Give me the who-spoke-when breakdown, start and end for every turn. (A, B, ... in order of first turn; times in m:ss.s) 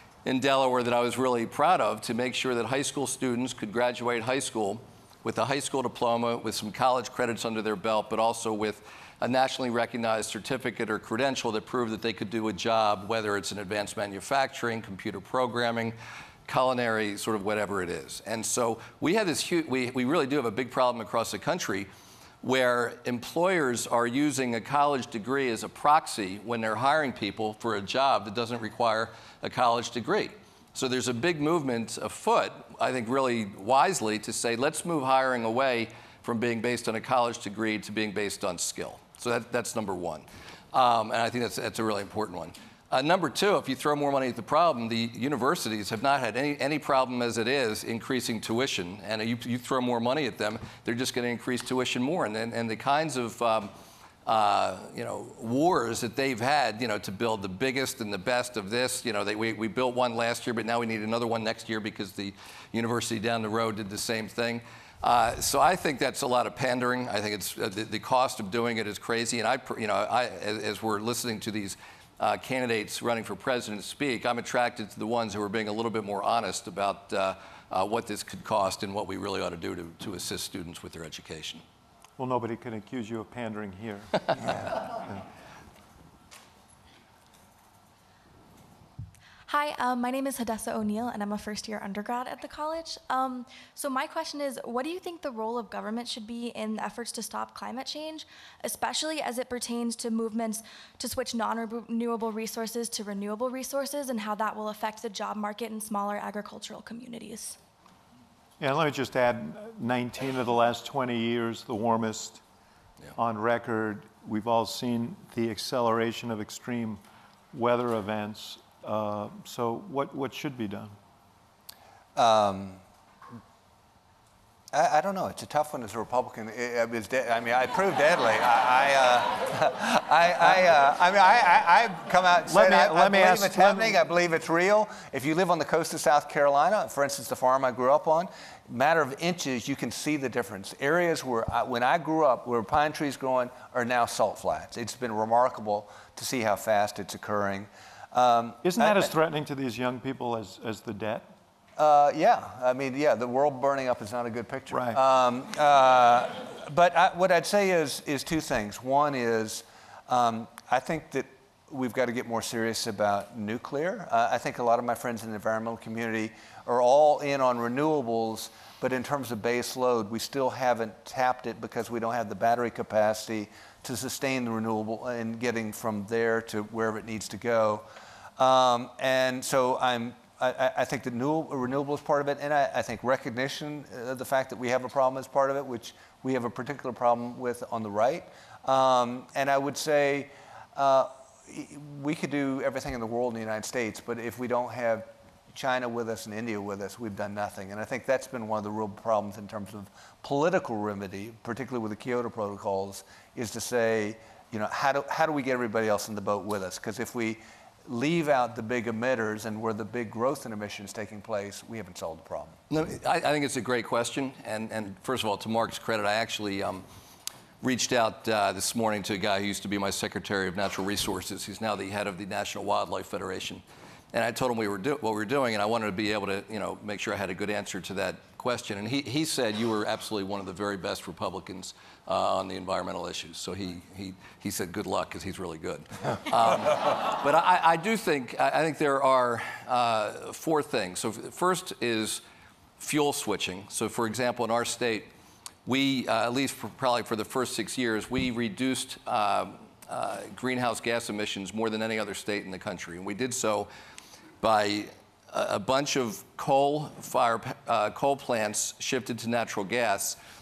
0:00.2-0:21.9 A
0:22.4-0:53.7 A
0:54.2-1:21.6 A
1:22.2-1:25.2 B
1:29.5-1:47.6 C
1:48.6-1:52.4 B
1:53.2-1:57.0 B
1:57.5-2:01.0 B
2:02.2-2:02.8 D
2:04.7-2:29.1 D
2:12.5-2:14.0 B
2:28.6-2:31.3 B
2:31.8-2:57.8 D
2:34.7-2:35.0 B
2:58.4-3:32.6 D
3:32.7-3:36.8 A
3:37.6-4:02.2 A
4:02.8-4:05.1 A
4:05.6-4:13.7 A
4:14.4-4:20.2 A